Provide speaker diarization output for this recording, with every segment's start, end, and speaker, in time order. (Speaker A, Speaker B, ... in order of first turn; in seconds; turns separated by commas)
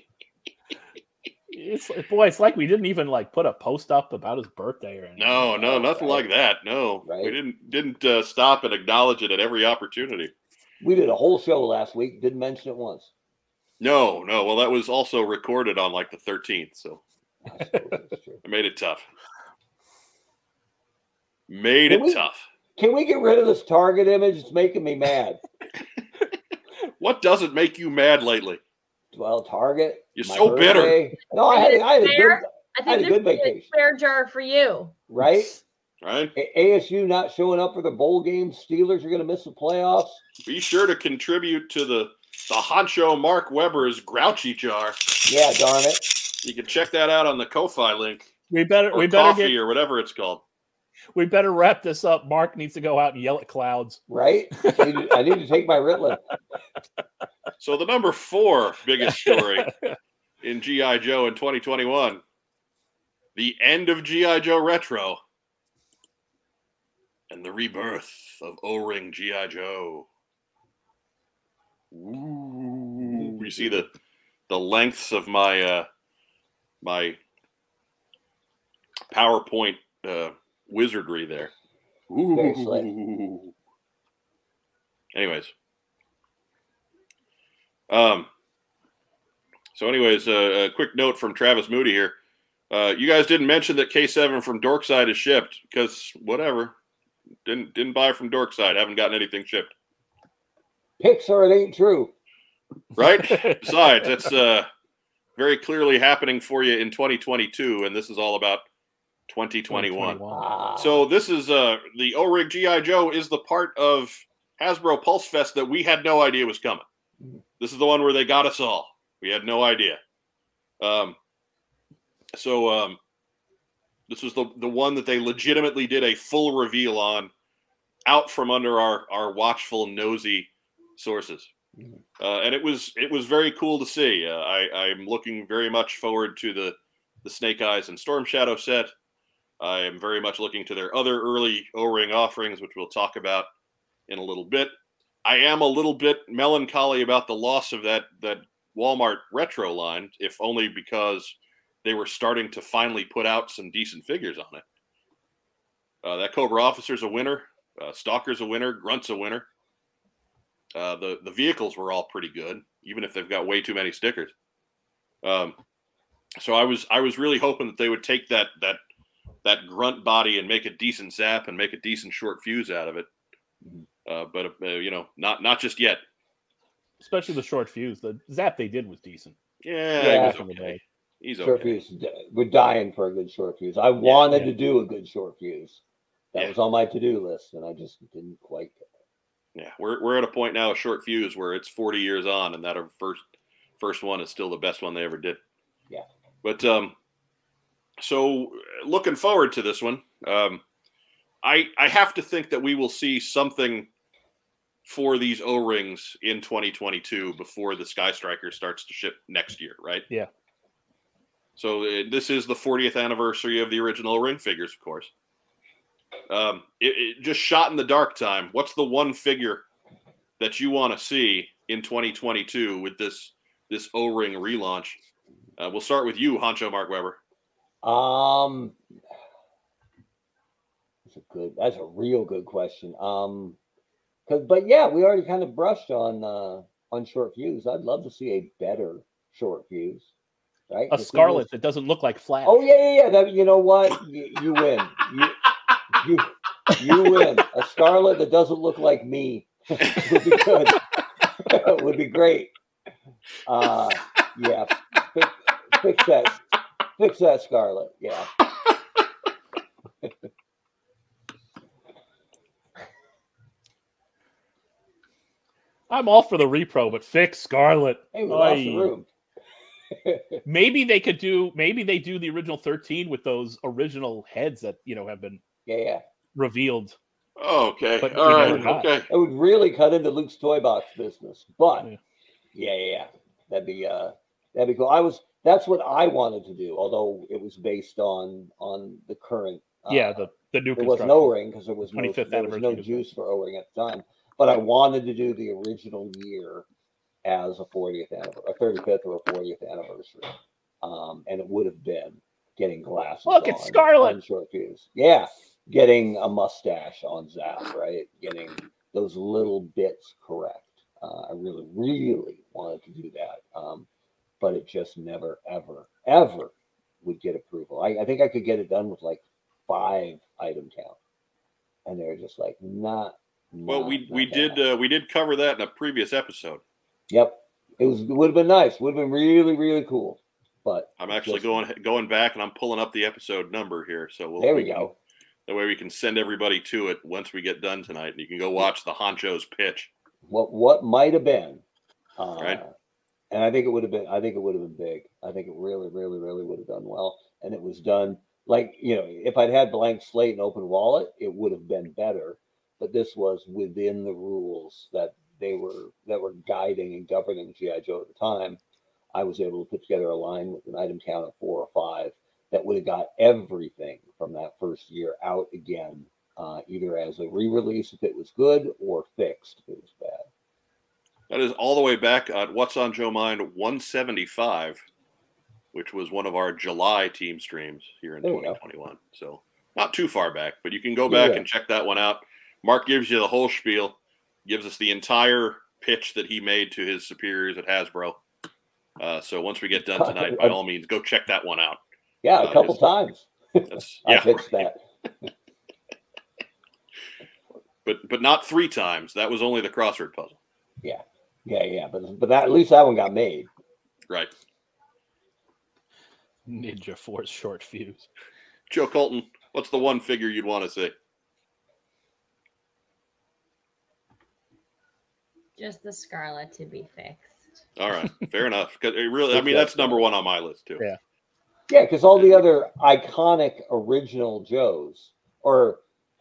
Speaker A: 1.5-5.5, Speaker B: 5.2-10.3, Speaker C: 5.6-6.3, Speaker C: 7.0-7.4, Speaker C: 10.8-13.1, Speaker B: 13.8-17.0, Speaker C: 17.5-18.4, Speaker B: 18.4-19.1, Speaker B: 21.5-22.4, Speaker C: 21.9-22.2, Speaker C: 22.8-25.4, Speaker B: 27.0-28.6, Speaker C: 29.1-33.7, Speaker B: 30.2-31.0, Speaker D: 31.5-34.9, Speaker C: 35.1-35.6, Speaker B: 36.0-36.3, Speaker C: 36.4-40.2, Speaker B: 40.5-45.0, Speaker C: 45.3-46.0, Speaker B: 46.4-48.3, Speaker A: 48.5-49.5, Speaker B: 48.9-50.4, Speaker A: 51.1-54.0, Speaker C: 54.1-56.2, Speaker A: 54.6-55.1, Speaker B: 57.6-59.7, Speaker A: 59.1-60.0, Speaker B: 60.4-62.2, Speaker B: 63.4-65.2, Speaker B: 67.3-70.1, Speaker B: 71.9-73.9, Speaker C: 73.0-73.8, Speaker B: 74.5-75.9, Speaker B: 76.8-77.2, Speaker B: 79.1-81.5, Speaker B: 82.1-83.5, Speaker C: 82.3-82.9, Speaker B: 85.1-85.5, Speaker B: 87.9-88.3, Speaker B: 89.8-92.2, Speaker B: 92.7-96.7, Speaker B: 97.5-99.7, Speaker C: 101.0-102.1, Speaker B: 103.0-104.7, Speaker A: 103.2-103.7, Speaker B: 105.4-108.6, Speaker B: 109.3-110.2, Speaker A: 109.7-110.4, Speaker C: 110.3-111.1, Speaker B: 110.8-116.8, Speaker B: 117.6-120.0, Speaker B: 120.8-121.2, Speaker B: 122.3-123.0, Speaker B: 124.1-127.3, Speaker B: 128.1-131.5, Speaker B: 132.2-138.9, Speaker B: 139.6-143.5, Speaker B: 144.1-144.7, Speaker B: 145.2-154.6, Speaker B: 156.0-159.5, Speaker B: 160.8-164.3, Speaker B: 165.2-165.6, Speaker B: 166.4-168.8, Speaker B: 169.4-173.1, Speaker B: 174.1-176.0, Speaker A: 177.0-179.3, Speaker B: 179.6-181.8, Speaker A: 180.0-180.8, Speaker C: 180.0-180.4, Speaker C: 181.4-185.8, Speaker C: 186.3-188.8, Speaker B: 189.6-193.2, Speaker B: 193.8-195.4, Speaker B: 196.4-196.9, Speaker B: 198.0-200.6, Speaker B: 201.4-203.9, Speaker B: 204.9-210.1, Speaker B: 211.6-215.1, Speaker B: 216.3-219.7, Speaker B: 220.4-225.0, Speaker B: 225.6-227.2, Speaker C: 227.8-228.8, Speaker C: 231.1-233.6, Speaker C: 234.3-240.1, Speaker C: 240.7-241.5, Speaker A: 240.9-242.7, Speaker C: 242.4-250.8, Speaker C: 251.4-252.5, Speaker C: 253.5-256.4, Speaker C: 257.0-258.3, Speaker A: 265.9-268.9, Speaker C: 268.1-269.1, Speaker C: 269.9-270.4, Speaker A: 270.4-275.4, Speaker C: 275.7-276.0, Speaker A: 276.4-277.0, Speaker B: 277.4-279.1, Speaker A: 278.0-278.9, Speaker C: 278.3-281.9, Speaker C: 282.5-290.2, Speaker A: 289.9-291.3, Speaker C: 290.8-296.7, Speaker A: 291.9-293.0, Speaker C: 297.2-313.9, Speaker A: 303.3-304.2, Speaker C: 314.4-316.5, Speaker C: 317.0-321.0, Speaker C: 321.9-324.6, Speaker B: 323.7-326.6, Speaker C: 327.1-331.6, Speaker B: 331.0-334.9, Speaker C: 334.4-334.9, Speaker B: 335.5-339.9, Speaker C: 340.3-341.6, Speaker C: 342.2-342.7, Speaker C: 343.3-358.6, Speaker C: 359.1-370.3, Speaker B: 371.3-374.8, Speaker B: 375.7-388.2, Speaker C: 378.2-378.6, Speaker C: 381.1-381.5, Speaker B: 389.0-391.8, Speaker C: 389.9-390.6, Speaker C: 392.2-394.8, Speaker B: 392.4-392.8, Speaker B: 393.7-394.5, Speaker B: 397.9-400.4, Speaker C: 400.8-403.5, Speaker A: 406.5-408.1, Speaker B: 408.7-410.9, Speaker D: 415.6-417.6, Speaker B: 417.8-420.8, Speaker C: 419.3-420.1, Speaker C: 421.7-425.8